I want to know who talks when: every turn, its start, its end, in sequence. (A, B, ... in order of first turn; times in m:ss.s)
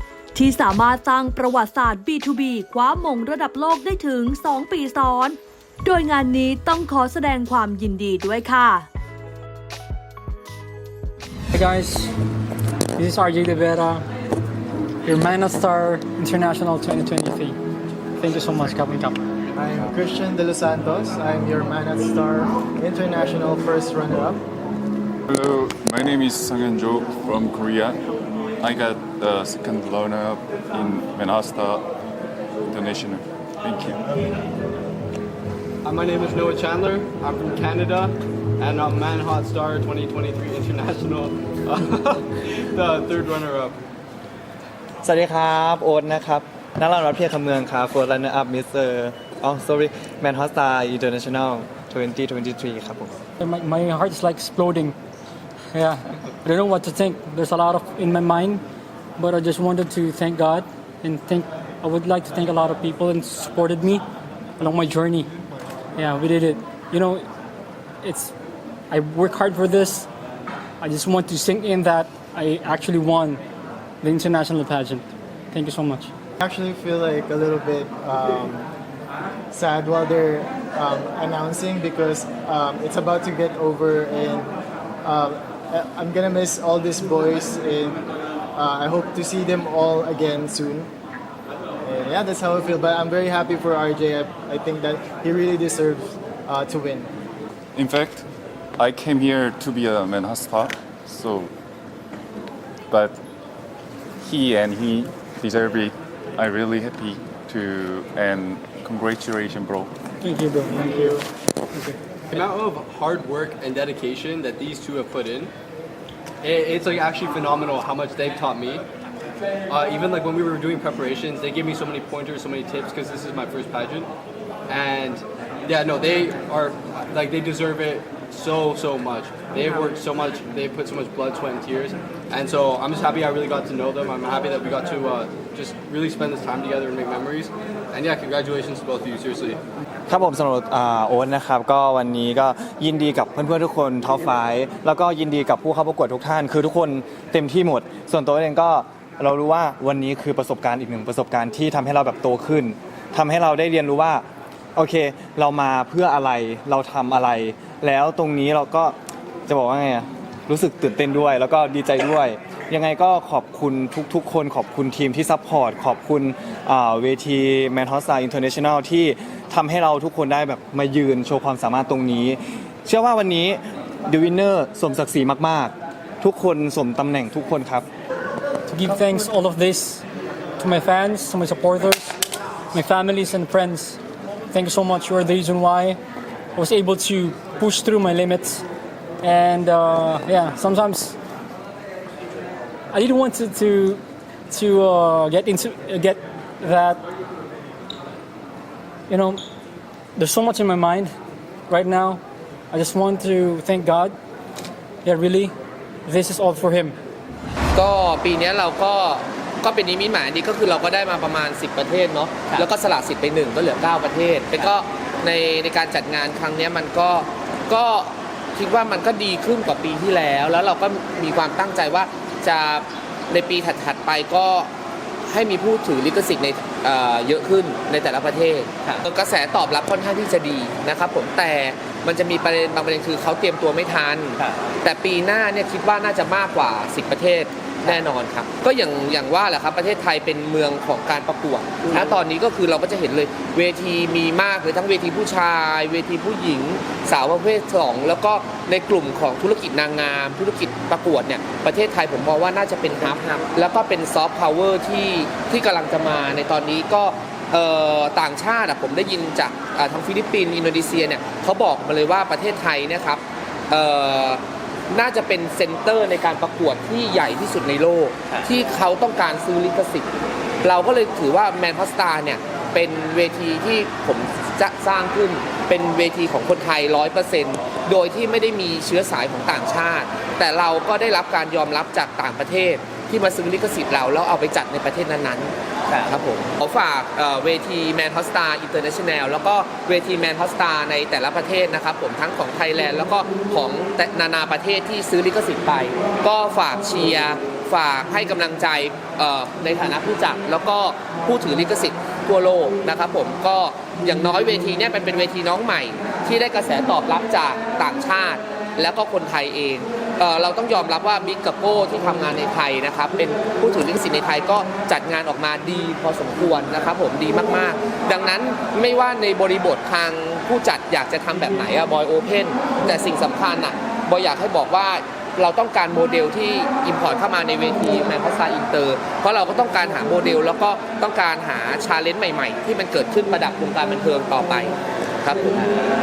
0:00.3-0:08.9 A
0:11.5-0:12.1 B
0:13.0-0:14.1 B
0:15.0-0:17.6 B
0:18.2-0:19.2 B
0:19.6-0:24.4 C
0:25.3-0:28.0 D
0:28.6-0:31.9 D
0:32.7-0:34.0 D
0:35.8-0:43.8 E
0:45.0-0:53.2 F
0:53.4-0:55.0 B
0:55.7-0:58.6 B
0:59.2-1:04.0 B
1:04.6-1:05.3 B
1:06.0-1:07.3 B
1:08.0-1:08.3 B
1:08.9-1:10.1 B
1:10.8-1:13.4 B
1:14.0-1:16.1 B
1:16.4-1:18.7 C
1:19.5-1:30.9 C
1:31.8-1:37.1 C
1:37.8-1:38.3 D
1:38.8-1:41.5 D
1:42.9-1:43.2 D
1:44.2-1:49.9 D
1:50.2-1:52.0 B
1:52.3-1:55.5 E
1:56.4-1:58.8 E
1:59.7-2:04.1 E
2:04.7-2:19.6 E
2:20.1-2:39.0 F
2:39.5-2:57.9 F
2:58.7-3:00.0 B
3:00.6-3:02.2 B
3:02.7-3:06.0 B
3:06.6-3:08.6 B
3:09.2-3:11.2 B
3:12.9-3:17.0 B
3:19.1-3:19.4 B
3:20.2-3:21.1 B
3:21.7-3:24.2 B
3:25.0-3:25.5 B
3:26.1-3:27.0 B
3:27.8-3:44.7 G
3:45.3-4:30.1 G
4:30.6-5:35.6 G